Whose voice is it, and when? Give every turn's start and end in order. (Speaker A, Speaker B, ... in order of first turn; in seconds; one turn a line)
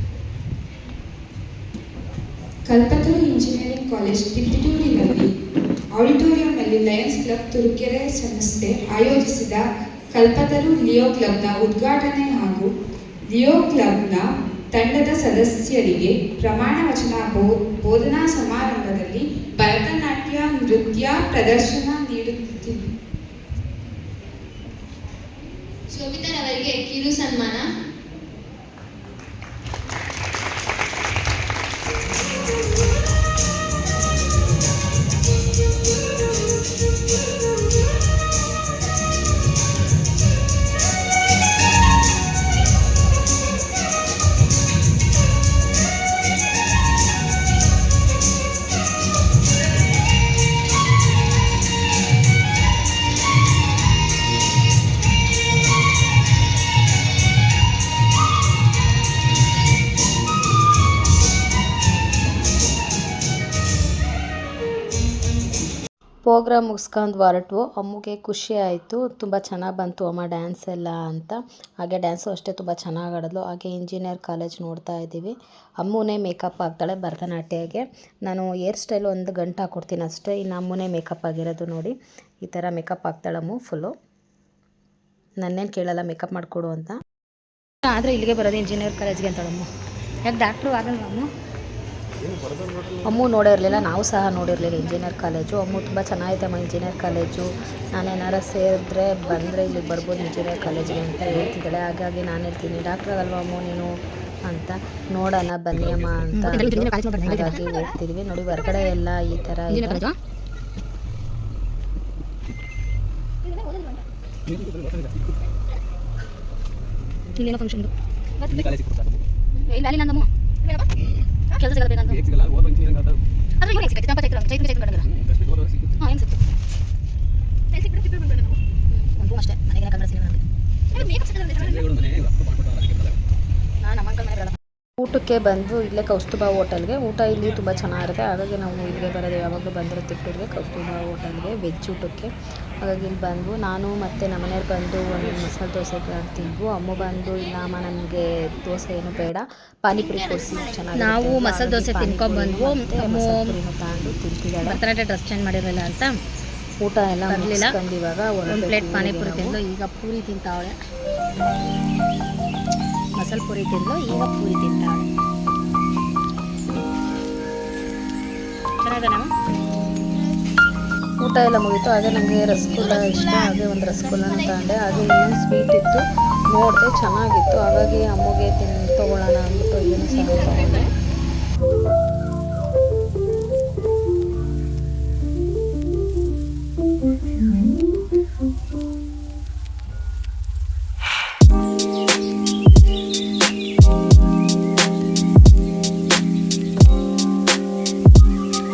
Speaker A: 2.7-5.3
Speaker A: 6.0-12.7
Speaker A: 13.3-22.9
Speaker B: 25.9-27.6
Speaker C: 66.2-83.9
Speaker C: 85.4-87.0
Speaker D: 87.8-89.7
Speaker D: 90.2-91.2
Speaker E: 92.2-93.0
Speaker C: 93.0-103.9
Speaker C: 104.5-110.0
Speaker E: 105.7-106.4
Speaker D: 106.3-107.9
Speaker D: 109.7-110.2
Speaker D: 113.5-114.0
Speaker E: 114.5-115.3
Speaker D: 117.4-117.9
Speaker D: 118.4-118.7
Speaker E: 118.5-119.2
Speaker D: 119.5-120.9
Speaker D: 121.5-122.2
Speaker E: 122.1-123.2
Speaker D: 123.6-125.1
Speaker E: 125.0-126.1
Speaker D: 126.0-126.4
Speaker D: 127.7-131.9
Speaker E: 130.9-133.2
Speaker D: 133.8-134.6
Speaker C: 135.0-154.8
Speaker B: 149.9-150.9
Speaker D: 150.9-153.6
Speaker D: 154.6-156.2
Speaker C: 156.8-159.6
Speaker D: 157.2-157.8
Speaker D: 158.5-160.7
Speaker D: 163.2-165.1
Speaker D: 168.8-169.3
Speaker C: 171.2-180.9
Speaker B: 172.7-174.8
Speaker D: 180.3-180.9